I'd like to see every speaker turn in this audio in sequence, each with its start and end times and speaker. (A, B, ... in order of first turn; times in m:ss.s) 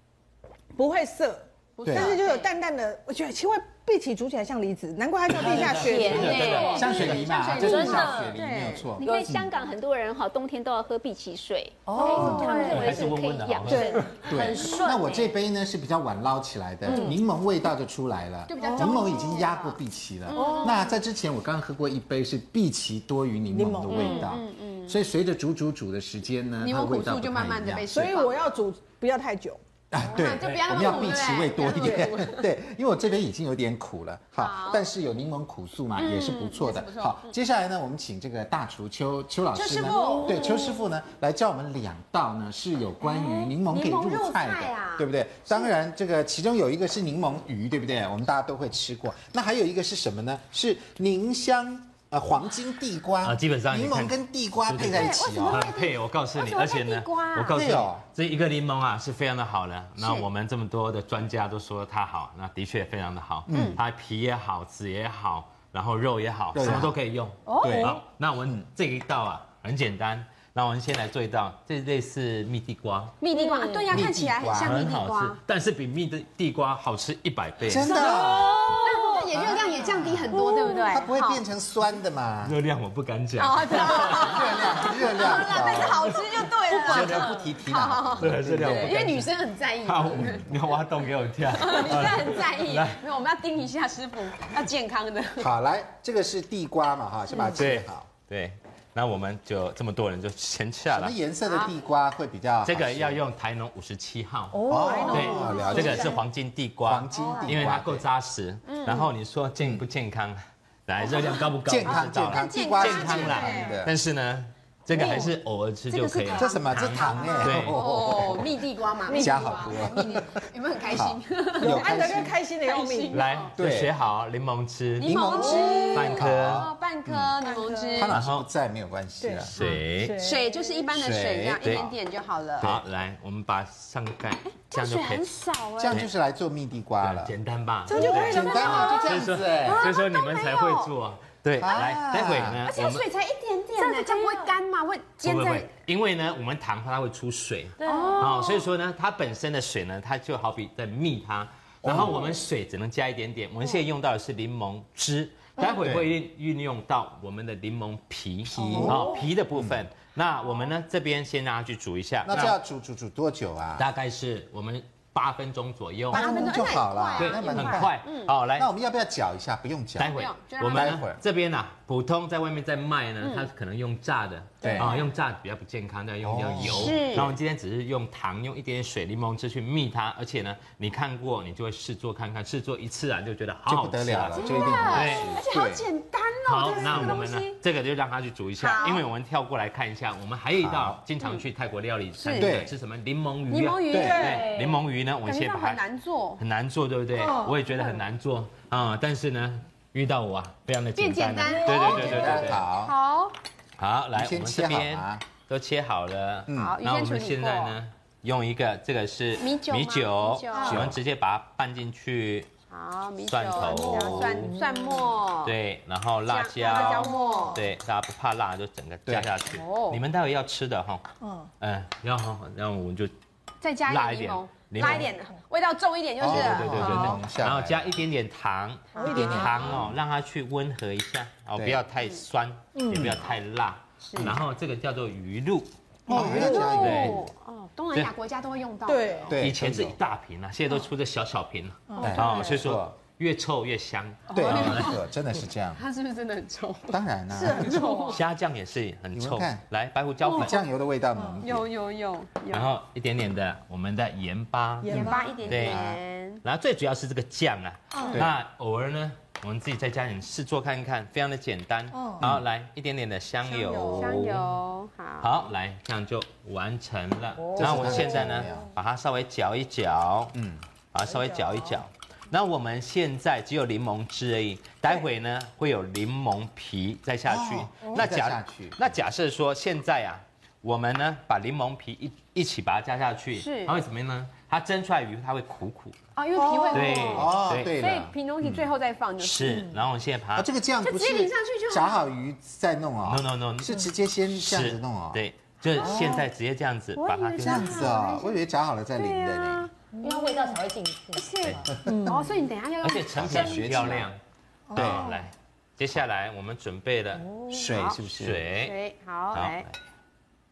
0:00.7-0:06.8 A
0:01.8-0:02.5 B
0:01.8-0:02.2 C
0:05.3-0:07.1 D
0:05.4-0:09.1 B
0:06.0-0:06.8 E
0:06.2-0:07.9 F
0:06.7-0:09.5 C
0:07.5-0:08.4 E
0:09.0-0:14.1 F
0:11.9-0:13.0 B
0:11.9-0:12.7 A
0:12.1-0:12.4 C
0:12.2-0:12.7 E
0:12.2-0:14.2 D
0:14.2-0:15.3 E
0:14.2-0:27.8 C
0:16.9-0:17.2 B
0:18.5-0:20.9 B
0:18.6-0:19.3 A
0:20.3-0:20.9 A
0:23.5-0:24.3 A
0:23.9-0:25.0 B
0:26.6-0:28.5 B
0:27.9-0:29.6 A
0:29.9-0:55.6 C
0:30.0-0:32.4 B
0:31.8-0:32.1 A
0:34.4-0:34.9 B
0:36.0-0:37.3 B
0:39.5-0:40.8 B
0:39.8-0:40.3 A
0:43.0-0:45.7 B
0:53.2-1:13.2 D
0:54.8-0:57.6 B
0:57.5-0:58.0 C
1:00.0-1:00.3 B
1:03.5-1:03.8 C
1:03.5-1:03.8 B
1:06.5-1:07.0 C
1:07.4-1:08.0 B
1:07.6-1:08.6 C
1:13.2-1:15.4 B
1:13.3-1:13.8 E
1:13.9-1:14.8 C
1:14.5-1:18.3 D
1:17.7-1:18.7 C
1:17.8-1:21.4 B
1:18.8-1:19.1 E
1:19.3-1:22.6 C
1:20.3-1:20.9 A
1:22.4-1:24.6 D
1:23.4-1:30.5 B
1:23.9-1:29.0 C
1:26.7-1:27.4 D
1:28.2-1:33.0 D
1:30.2-1:30.5 C
1:31.5-1:35.5 B
1:35.4-1:38.1 C
1:37.6-1:41.2 D
1:40.9-1:43.2 C
1:41.5-1:41.7 B
1:42.6-1:57.8 D
1:44.6-1:46.0 E
1:44.7-1:46.2 C
1:44.7-1:45.9 A
1:44.7-1:46.2 B
1:46.8-1:48.0 C
1:47.2-1:47.5 B
1:48.6-1:49.1 B
1:51.0-1:53.8 B
1:51.6-1:53.9 C
1:54.9-1:55.3 B
1:55.9-2:03.5 B
1:56.3-1:58.6 C
1:57.2-1:57.5 A
1:59.0-1:59.8 A
1:59.1-2:02.4 C
2:01.6-2:03.2 A
2:03.1-2:05.3 D
2:03.6-2:03.9 C
2:05.0-2:08.1 B
2:05.0-2:07.4 C
2:05.3-2:05.8 A
2:05.9-2:06.7 D
2:07.4-2:08.0 A
2:07.9-2:09.6 C
2:08.1-2:08.5 D
2:09.2-2:10.7 A
2:09.6-2:10.2 D
2:09.6-2:12.7 B
2:10.9-2:11.8 C
2:11.6-2:11.9 D
2:12.6-2:15.3 D
2:14.5-2:16.0 B
2:15.8-2:17.3 C
2:17.0-2:23.0 D
2:17.9-2:19.0 A
2:17.9-2:20.9 B
2:18.2-2:19.9 C
2:21.6-2:22.6 C
2:22.6-2:25.7 B
2:23.8-2:24.5 E
2:25.2-2:42.6 D
2:27.8-2:28.3 E
2:27.8-2:28.7 B
2:31.8-2:32.2 C
2:35.7-2:36.2 C
2:38.5-2:39.9 C
2:38.6-2:39.2 A
2:42.2-2:43.9 C
2:43.8-2:46.4 D
2:46.1-2:48.0 C
2:46.1-2:48.3 B
2:47.2-2:48.7 D
2:48.6-2:50.1 C
2:50.0-3:05.4 D
2:50.0-2:51.0 B
2:50.7-2:51.2 C
2:53.2-2:53.5 B
2:54.6-2:55.0 C
2:54.7-2:55.1 B
2:56.2-2:57.2 C
2:56.6-2:57.3 B
3:03.7-3:05.8 C
3:04.3-3:07.6 B
3:06.4-3:15.8 D
3:06.9-3:07.2 C
3:08.6-3:09.0 B
3:10.6-3:11.0 C
3:12.2-3:12.5 B
3:12.4-3:12.7 C
3:13.5-3:16.4 B
3:13.9-3:14.2 C
3:14.2-3:14.4 A
3:16.4-3:22.6 D
3:17.2-3:17.5 A
3:21.0-3:23.3 B
3:21.8-3:22.9 C
3:23.8-3:32.5 D
3:24.1-3:25.2 C
3:26.5-3:26.8 C
3:26.5-3:27.8 B
3:29.4-3:30.8 B
3:30.6-3:31.0 C
3:32.7-3:35.5 B
3:33.2-3:34.6 D
3:33.8-3:35.1 A
3:35.4-3:41.0 D
3:36.2-3:37.6 B
3:36.6-3:37.6 A
3:39.1-3:39.3 C
3:39.5-3:40.0 B
3:41.2-3:41.5 A
3:41.6-3:43.1 D
3:43.6-3:47.2 B
3:43.9-3:45.1 D
3:46.2-3:48.0 C
3:46.2-3:57.2 D
3:49.0-3:49.7 B
3:49.0-3:49.8 A
3:51.5-3:51.8 C
3:52.7-3:53.2 A
3:54.0-3:54.3 B
3:56.1-3:57.0 A
3:56.1-3:57.2 C
3:56.3-3:59.3 B
3:58.8-3:59.3 A
3:59.3-4:00.0 C
3:59.4-4:05.0 D
4:01.9-4:02.2 A
4:02.0-4:02.6 B
4:02.0-4:02.9 C
4:04.3-4:05.0 B
4:04.3-4:05.8 C
4:05.7-4:08.2 B
4:06.9-4:07.8 C
4:07.3-4:08.2 A
4:08.1-4:10.6 D
4:09.1-4:09.6 C
4:10.2-4:10.6 B
4:10.3-4:11.6 C
4:11.1-4:11.4 A
4:11.4-4:12.7 B
4:12.5-4:15.8 D
4:14.8-4:15.4 A
4:14.9-4:16.4 B
4:15.5-4:15.9 C
4:16.4-4:24.5 D
4:21.9-4:22.2 A
4:23.5-4:24.2 A
4:23.9-4:25.4 B
4:25.2-4:30.4 D
4:27.6-4:28.7 C
4:30.3-4:30.6 C
4:30.9-4:46.0 D
4:31.1-4:31.7 A
4:37.2-4:38.9 C
4:43.3-4:43.8 B
4:46.2-4:49.7 B
4:46.3-4:47.1 A
4:46.7-4:47.7 D
4:47.1-4:48.1 C
4:49.2-4:50.5 D
4:50.4-4:55.2 C
4:50.8-4:52.1 B
4:53.0-4:58.0 D
4:55.7-4:56.2 B
4:55.8-4:56.2 C
4:57.0-4:58.4 B
4:57.4-4:59.7 C
4:59.0-4:59.7 B
5:00.0-5:00.5 A
5:00.0-5:01.6 E
5:01.1-5:04.0 B
5:01.4-5:01.7 D
5:01.8-5:02.2 A
5:01.8-5:02.1 C
5:02.8-5:04.2 D
5:03.1-5:04.1 C
5:04.7-5:05.2 A
5:04.7-5:07.2 D
5:04.8-5:05.0 C
5:07.5-5:08.5 C
5:07.5-5:08.0 B
5:08.2-5:08.8 D
5:08.5-5:09.6 B
5:09.3-5:09.7 D